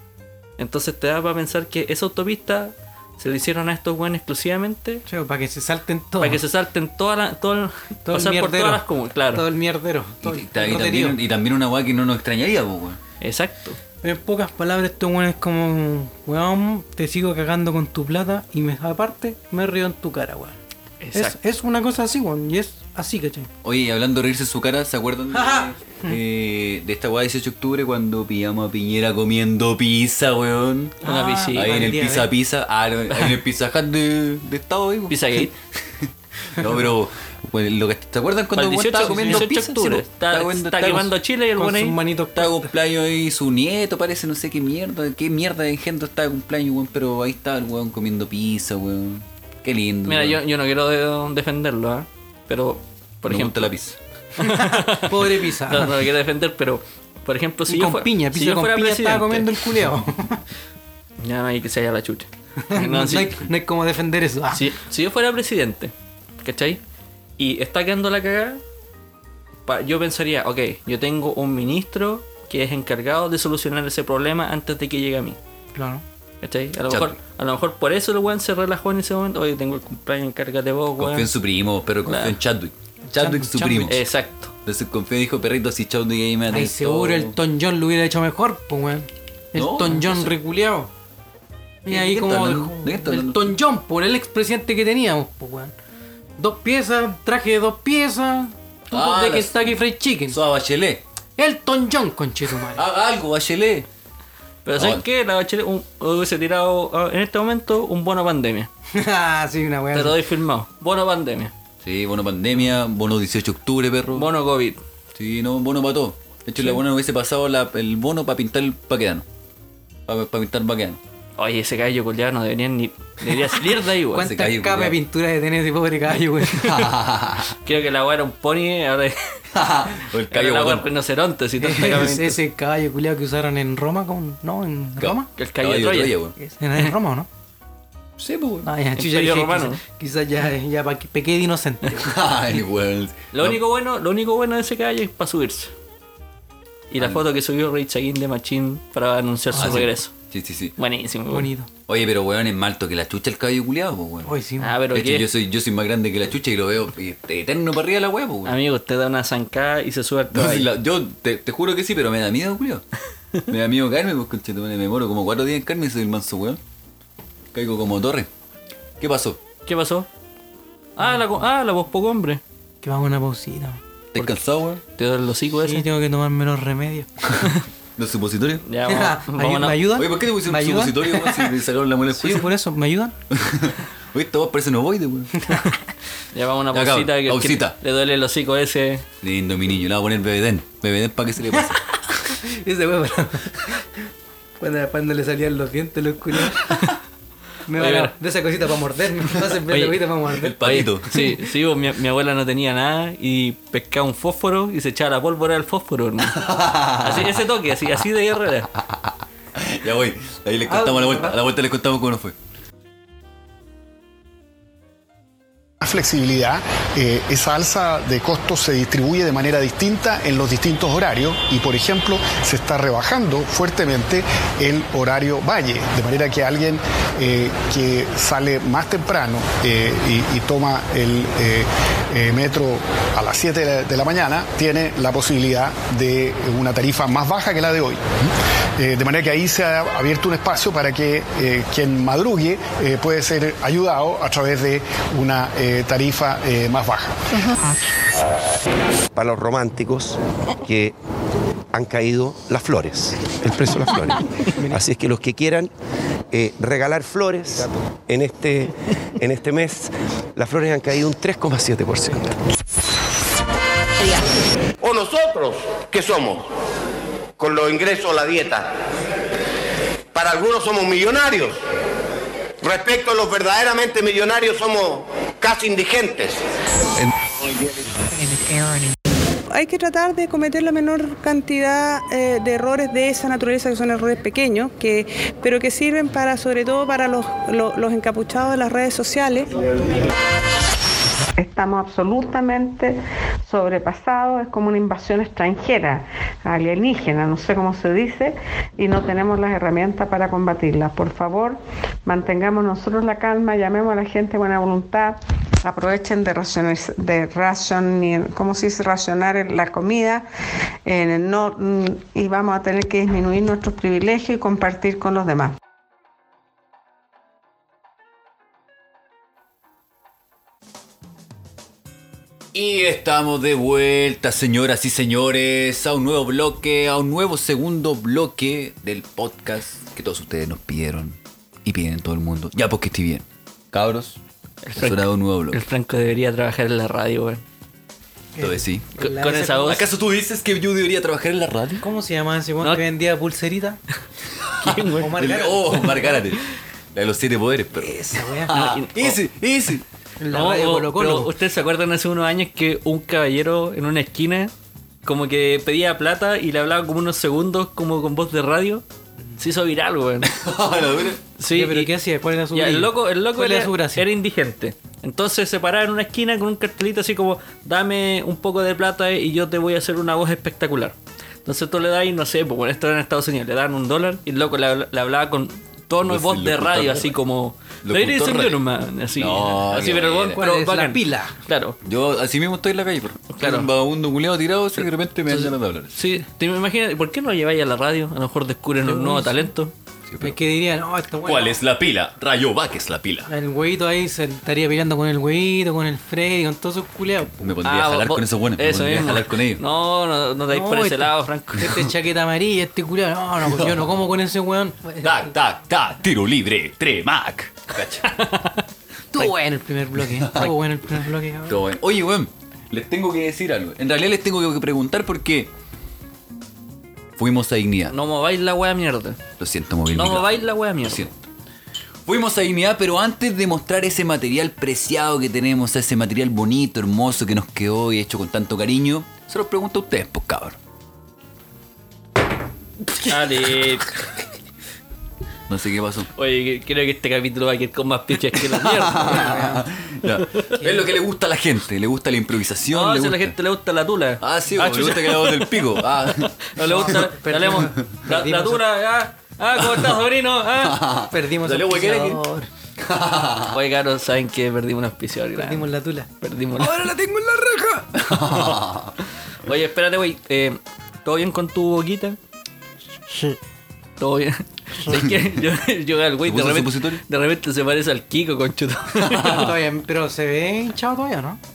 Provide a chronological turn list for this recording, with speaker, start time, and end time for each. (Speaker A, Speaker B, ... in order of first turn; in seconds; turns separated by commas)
Speaker A: 0.6-5.0, Speaker B: 5.1-6.4, Speaker A: 6.2-9.4, Speaker B: 8.1-11.2, Speaker C: 10.2-13.0, Speaker A: 13.2-13.8, Speaker B: 14.0-20.6, Speaker A: 21.0-21.3, Speaker B: 21.1-23.5, Speaker C: 23.6-35.5, Speaker B: 25.3-26.1, Speaker B: 31.0-32.3, Speaker A: 31.0-31.8, Speaker A: 33.1-33.4, Speaker A: 35.1-35.5, Speaker C: 36.5-41.1, Speaker A: 38.5-42.0, Speaker B: 39.0-39.5, Speaker B: 41.6-42.7, Speaker C: 42.3-50.4, Speaker A: 50.0-53.7, Speaker C: 53.2-54.0, Speaker B: 54.4-55.9, Speaker A: 54.4-59.8, Speaker B: 57.7-60.4, Speaker A: 61.2-63.5, Speaker B: 62.7-64.6, Speaker A: 64.5-66.8, Speaker A: 67.4-68.6, Speaker A: 69.7-75.4, Speaker B: 75.7-76.0, Speaker A: 76.4-81.3, Speaker C: 76.9-77.2, Speaker C: 81.0-84.0, Speaker A: 82.0-82.4, Speaker B: 83.1-83.9, Speaker A: 83.8-84.5, Speaker C: 84.6-87.3, Speaker B: 86.5-90.9, Speaker C: 89.5-90.3, Speaker B: 91.8-95.7, Speaker C: 91.9-93.6, Speaker B: 96.4-100.4, Speaker C: 98.9-99.7, Speaker C: 100.3-101.0, Speaker B: 101.4-102.8, Speaker C: 102.8-103.9, Speaker A: 104.7-108.7, Speaker C: 104.8-105.0, Speaker B: 108.9-110.2, Speaker A: 109.9-111.5, Speaker C: 111.8-114.3, Speaker A: 114.1-114.8, Speaker C: 115.1-119.2, Speaker C: 120.1-121.0, Speaker A: 121.4-124.3, Speaker B: 124.1-126.7, Speaker C: 124.2-125.0, Speaker C: 126.6-127.5, Speaker A: 127.6-129.3, Speaker C: 129.5-130.8, Speaker A: 130.3-132.4, Speaker B: 131.6-135.3, Speaker C: 135.0-136.3, Speaker A: 135.4-136.2, Speaker B: 136.4-137.3, Speaker C: 138.2-138.7, Speaker B: 138.6-142.2, Speaker A: 139.0-139.8, Speaker C: 142.0-143.6, Speaker A: 143.3-145.7, Speaker A: 146.9-150.1, Speaker B: 149.5-149.8, Speaker C: 149.6-150.7, Speaker A: 150.8-151.5, Speaker B: 151.3-151.7, Speaker C: 151.9-154.3, Speaker B: 154.2-154.7, Speaker A: 154.6-155.3, Speaker C: 154.9-158.6, Speaker A: 158.4-160.7, Speaker C: 160.3-162.8, Speaker C: 163.5-166.6, Speaker C: 167.5-168.3, Speaker C: 169.0-169.4, Speaker A: 169.7-170.1, Speaker A: 170.9-172.4, Speaker B: 172.8-173.8, Speaker C: 174.1-174.8, Speaker A: 174.9-175.9, Speaker B: 175.6-177.1, Speaker C: 178.0-178.6, Speaker A: 178.7-179.9, Speaker B: 178.8-181.5, Speaker C: 179.9-182.5, Speaker B: 182.1-183.2, Speaker C: 183.3-185.3, Speaker B: 185.4-185.7, Speaker A: 186.3-189.0, Speaker C: 186.7-187.8, Speaker C: 189.2-191.8, Speaker B: 192.2-193.8, Speaker B: 194.6-196.7, Speaker B: 197.7-201.2, Speaker A: 197.8-198.1, Speaker A: 199.7-200.0, Speaker C: 200.3-201.2, Speaker A: 200.6-208.7, Speaker C: 206.3-207.4, Speaker C: 209.5-212.3, Speaker B: 210.7-211.4, Speaker D: 215.8-238.0, Speaker D: 238.8-247.2, Speaker E: 249.1-250.9, Speaker E: 251.7-255.7, Speaker E: 256.3-262.3, Speaker F: 264.8-266.5, Speaker F: 267.4-268.7, Speaker F: 270.1-271.6, Speaker F: 272.6-276.4, Speaker G: 279.5-289.5, Speaker H: 291.4-292.9, Speaker H: 293.5-310.2, Speaker H: 310.9-315.5, Speaker C: 322.5-334.2, Speaker A: 334.6-337.4, Speaker C: 334.8-335.6, Speaker B: 338.4-339.8, Speaker C: 338.4-338.9, Speaker A: 339.0-339.8, Speaker C: 339.6-341.8, Speaker B: 341.8-343.8, Speaker A: 344.6-345.1, Speaker B: 345.0-346.1, Speaker C: 345.2-346.4, Speaker C: 346.9-349.8, Speaker B: 347.8-348.5, Speaker A: 348.5-349.2, Speaker B: 350.2-351.3, Speaker A: 350.3-354.5, Speaker A: 355.0-358.8, Speaker A: 359.4-360.3, Speaker C: 360.2-361.2, Speaker A: 361.4-361.9, Speaker B: 361.5-364.1, Speaker A: 362.5-381.8, Speaker C: 376.0-377.1, Speaker C: 377.8-378.6, Speaker C: 379.1-380.4, Speaker B: 380.4-381.4, Speaker C: 381.8-385.9, Speaker A: 383.3-383.7, Speaker A: 385.3-389.7, Speaker B: 388.8-389.5, Speaker C: 390.1-390.4, Speaker B: 390.2-391.6, Speaker C: 391.2-393.3, Speaker B: 393.3-397.4, Speaker C: 397.4-399.6, Speaker A: 397.6-401.9, Speaker B: 400.5-405.3, Speaker C: 403.6-403.8, Speaker C: 405.0-408.1, Speaker A: 408.0-408.6, Speaker B: 409.1-411.6, Speaker C: 410.2-410.5, Speaker C: 411.5-415.5, Speaker C: 417.2-417.9, Speaker A: 417.9-419.2, Speaker C: 419.4-421.1, Speaker A: 419.9-421.1, Speaker C: 422.1-430.6, Speaker A: 433.1-433.9, Speaker C: 435.5-436.1, Speaker A: 436.2-439.4, Speaker C: 438.5-443.3, Speaker B: 439.1-439.6, Speaker A: 442.7-450.9, Speaker C: 444.2-446.3, Speaker B: 446.6-448.6, Speaker C: 450.6-452.2, Speaker B: 451.1-452.5, Speaker C: 452.8-453.6, Speaker A: 453.5-455.7, Speaker B: 455.4-456.1, Speaker A: 456.2-456.9, Speaker C: 456.6-458.9, Speaker A: 458.2-458.6, Speaker A: 459.4-462.2, Speaker A: 464.0-469.5, Speaker C: 466.2-467.0, Speaker C: 469.1-469.4, Speaker B: 469.2-471.4